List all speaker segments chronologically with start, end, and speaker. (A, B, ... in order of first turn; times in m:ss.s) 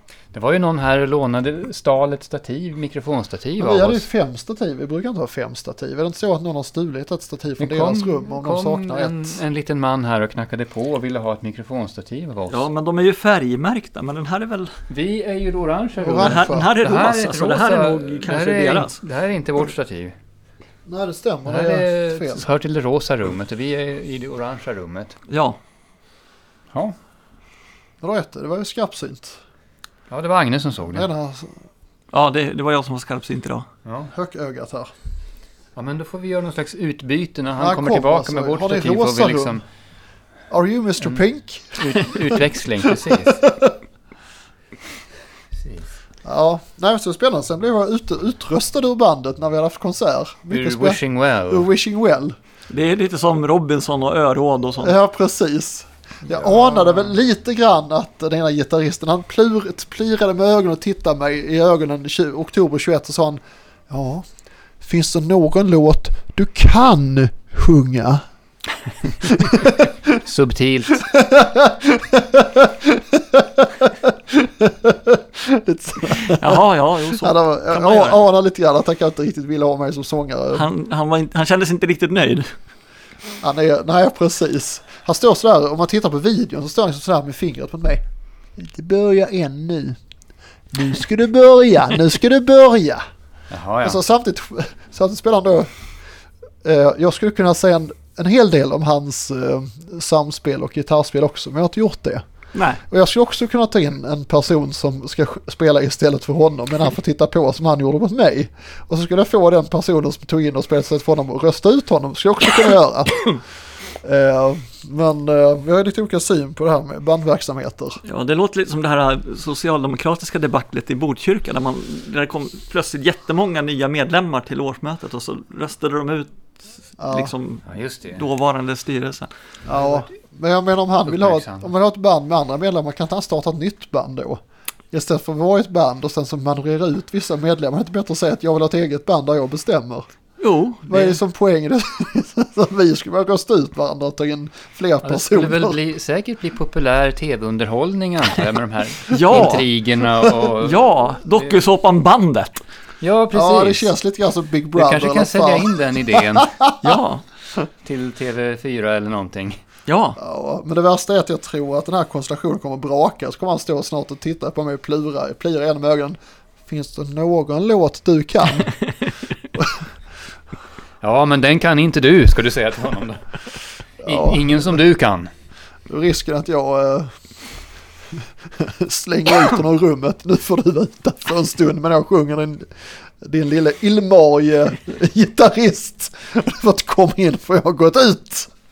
0:00.3-0:04.1 A
0:03.6-0:09.4 B
0:07.6-0:12.6 A
0:12.5-0:14.7 C
0:14.9-0:20.1 A
0:16.0-0:16.7 B
0:16.2-0:19.0 C
0:20.8-0:22.4 B
0:21.4-0:25.2 A
0:25.3-0:25.6 C
0:28.0-0:29.4 B
0:30.1-0:31.1 A
0:30.9-0:31.5 B
0:32.1-0:33.6 C
0:33.8-0:34.1 A
0:34.1-0:34.9 B
0:35.7-0:39.6 A
0:37.6-0:39.6 B
0:40.5-0:42.4 B
0:41.8-0:43.4 A
0:43.1-0:43.7 B
0:45.6-0:45.9 A
0:46.2-0:52.4 B
0:50.5-0:51.7 A
0:52.7-0:54.9 C
0:54.8-1:04.2 B
0:56.3-0:57.2 A
1:04.8-1:08.2 B
1:09.2-1:09.9 B
1:10.2-1:11.0 A
1:11.1-1:16.6 B
1:16.4-1:18.2 C
1:17.1-1:20.6 B
1:20.5-1:22.4 C
1:23.4-1:28.0 B
1:28.6-1:30.0 B
1:30.7-1:33.0 B
1:33.5-1:34.0 A
1:33.8-1:35.7 B
1:36.6-1:42.2 B
1:42.5-1:42.8 C
1:42.9-1:53.4 B
1:54.0-1:58.0 B
1:58.0-2:09.3 C
2:07.0-2:07.3 B
2:07.7-2:08.2 A
2:09.6-2:20.1 B
2:09.7-2:10.0 A
2:11.0-2:11.7 A
2:20.4-2:21.2 C
2:20.9-2:25.8 B
2:25.0-2:31.5 A
2:29.1-2:29.6 C
2:30.6-2:32.6 C
2:33.0-2:33.9 A
2:33.3-2:36.8 B
2:34.7-2:36.5 A
2:36.8-2:37.2 C
2:37.8-2:39.6 A
2:39.9-2:40.2 C
2:40.2-2:48.8 B
2:51.0-2:53.2 A
2:54.0-2:54.8 B
2:54.0-2:55.3 A
2:55.9-2:57.1 B
2:58.2-3:02.7 B
3:03.2-3:08.5 B